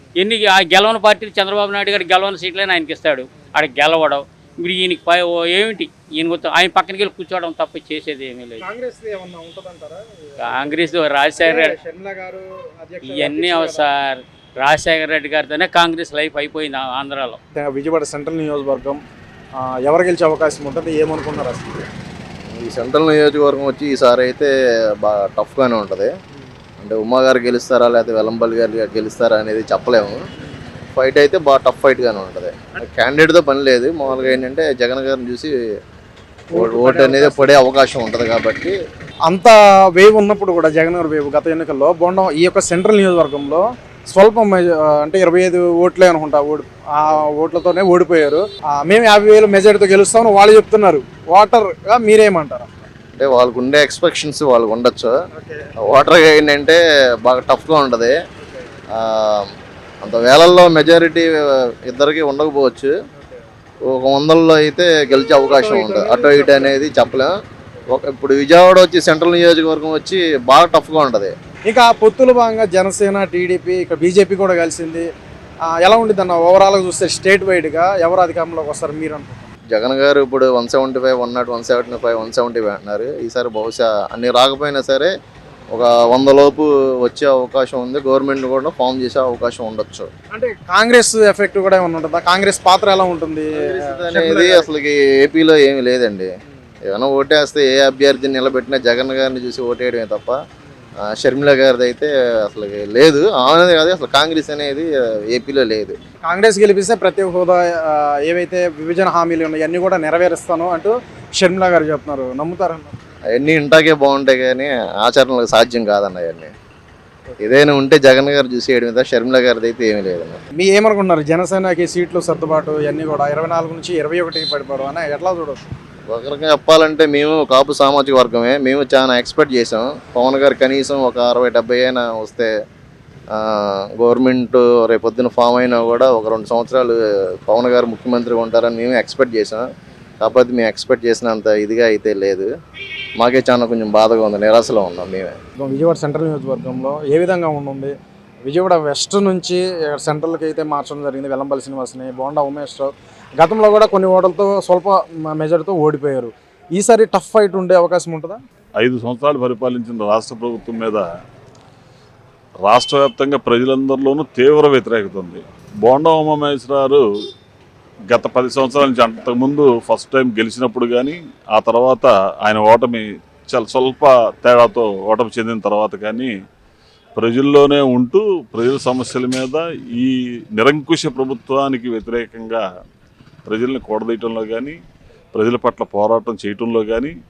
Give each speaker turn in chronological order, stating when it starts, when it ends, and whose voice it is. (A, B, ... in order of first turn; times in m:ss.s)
0:00.2-0:08.6 A
0:08.6-0:10.8 B
0:10.6-0:11.6 A
0:11.4-0:13.9 B
0:13.2-0:17.4 A
0:17.6-0:19.0 B
0:19.7-0:21.8 B
0:22.5-0:26.1 C
0:26.8-0:30.2 C
0:30.9-0:35.5 C
0:36.5-0:37.5 B
0:36.5-0:38.8 C
0:39.3-0:52.9 B
0:53.2-0:55.1 C
0:55.3-0:55.7 B
0:55.8-0:58.2 C
0:59.0-0:59.5 C
1:00.0-1:02.9 C
1:03.9-1:07.3 C
1:05.5-1:06.8 B
1:07.9-1:11.3 C
1:11.7-1:15.1 B
1:15.8-1:19.5 B
1:19.7-1:25.1 C
1:25.7-1:30.1 C
1:30.3-1:34.7 B
1:33.6-1:36.3 C
1:36.9-1:40.4 C
1:41.1-1:46.0 C
1:46.2-1:53.0 B
1:53.3-1:56.5 C
1:57.4-2:00.4 C
2:00.6-2:05.7 B
2:06.1-2:12.5 C
2:13.4-2:19.7 C
2:20.2-2:22.5 C
2:23.2-2:25.4 C
2:25.6-2:27.9 B
2:28.4-2:38.4 B
2:38.8-2:41.0 D
2:42.6-2:47.0 D
2:48.1-2:56.3 D
2:57.2-3:02.6 D
3:03.5-3:04.8 D
3:05.3-3:07.1 D